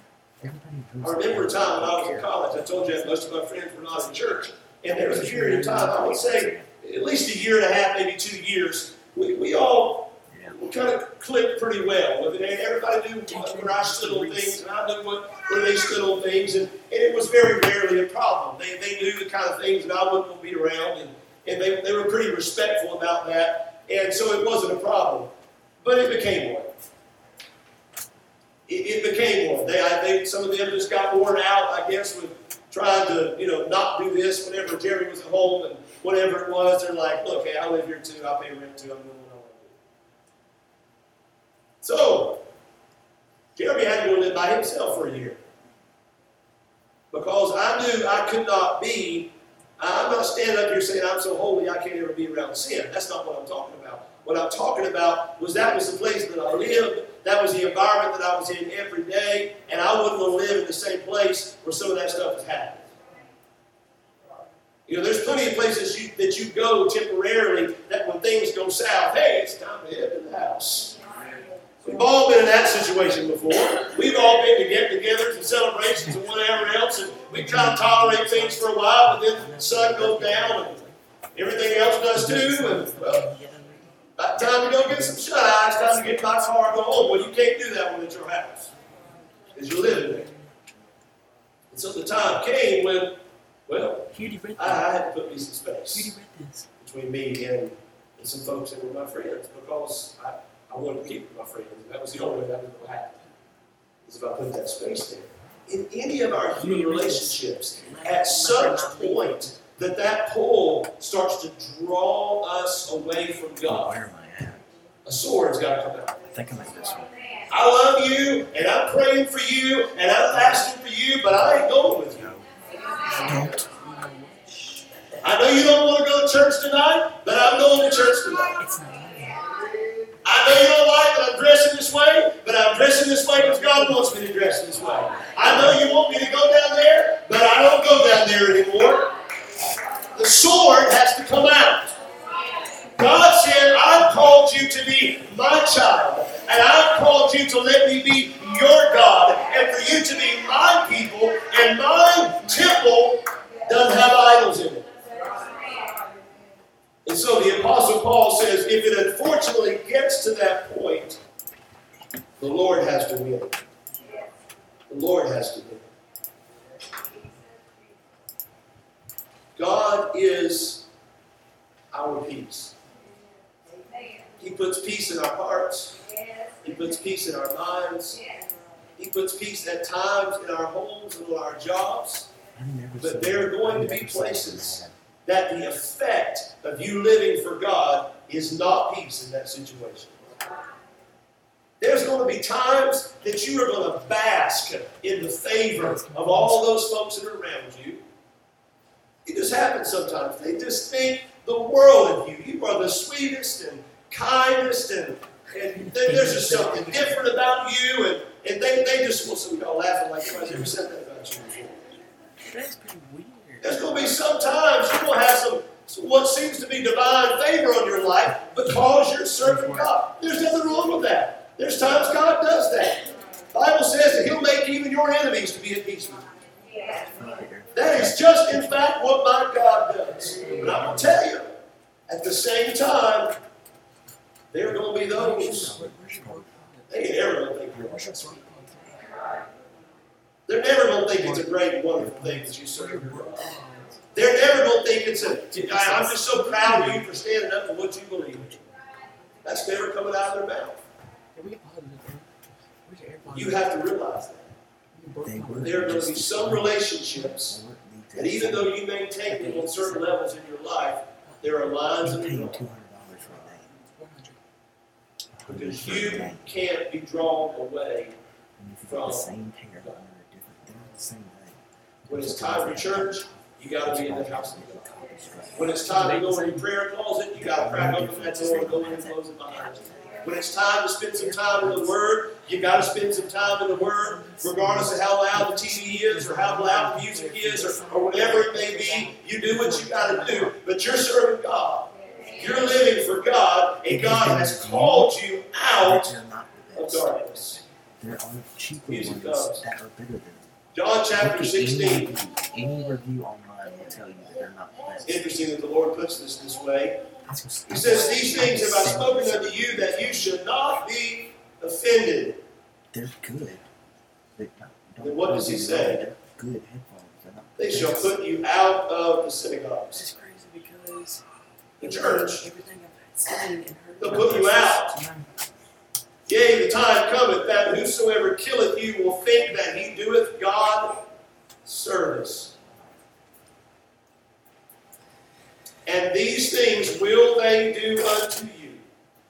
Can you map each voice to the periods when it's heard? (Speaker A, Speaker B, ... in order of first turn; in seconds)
Speaker A: 0.4-3.3, 4.0-6.7, 10.3-10.7, 113.6-114.7, 116.2-117.1, 120.3-120.6, 122.1-122.5, 123.2-123.7, 182.5-184.9, 226.9-228.9, 235.5-236.5, 237.7-238.4, 255.2-258.8, 262.0-263.8, 265.3-266.5, 268.6-275.8, 277.4-280.4, 293.9-295.1, 295.8-297.3, 298.0-300.5, 301.1-305.4, 307.2-310.5, 312.9-313.6, 314.3-318.2
Speaker B: 1.0-25.3, 25.8-26.7, 28.7-39.8, 41.8-42.4, 43.5-45.4, 47.1-62.9, 64.9-71.0, 71.8-80.8, 81.3-83.2, 84.2-88.7, 89.5-90.3, 91.7-96.1, 96.8-103.1, 104.0-114.0, 115.0-116.2, 117.5-122.3, 125.2-128.6, 130.2-139.1, 140.1-141.9, 142.9-154.8, 157.0-161.2, 162.4-163.5, 164.9-165.8, 169.6-170.8, 171.9-172.7, 174.4-176.0, 176.6-178.2, 179.0-182.3, 183.0-190.2, 191.8-198.0, 199.2-211.8, 213.6-226.3, 227.7-231.5, 232.1-233.3, 234.5-235.8, 236.9-238.0, 240.5-243.6, 244.1-248.6, 249.4-250.8, 253.3-254.6, 255.6-257.6, 258.1-262.6, 265.4-268.1, 268.9-269.3, 272.1-274.9, 275.6-296.1, 296.7-297.6, 298.9-299.6, 300.7-302.2, 305.0-307.0, 307.7-312.4, 315.0-316.0, 317.6-320.0, 321.8-322.5, 324.0-325.0, 326.3-331.0, 331.6-332.5, 335.9-338.9
Speaker C: 5.2-5.6, 13.2-14.6, 76.0-81.0, 82.1-87.3, 88.9-90.5, 94.1-94.9, 95.9-96.7, 106.5-109.6, 123.1-125.0, 128.6-129.4, 132.9-135.8, 195.8-196.7, 205.7-207.3, 212.4-213.8, 219.4-219.9, 230.4-231.0, 235.1-236.9, 237.7-239.1, 241.2-243.9, 245.3-247.2, 251.3-252.3, 252.8-253.7, 254.9-256.0, 259.2-260.1, 261.2-261.6, 263.8-264.4, 275.9-276.6, 281.2-281.9, 282.6-290.6, 319.9-321.2, 321.8-325.3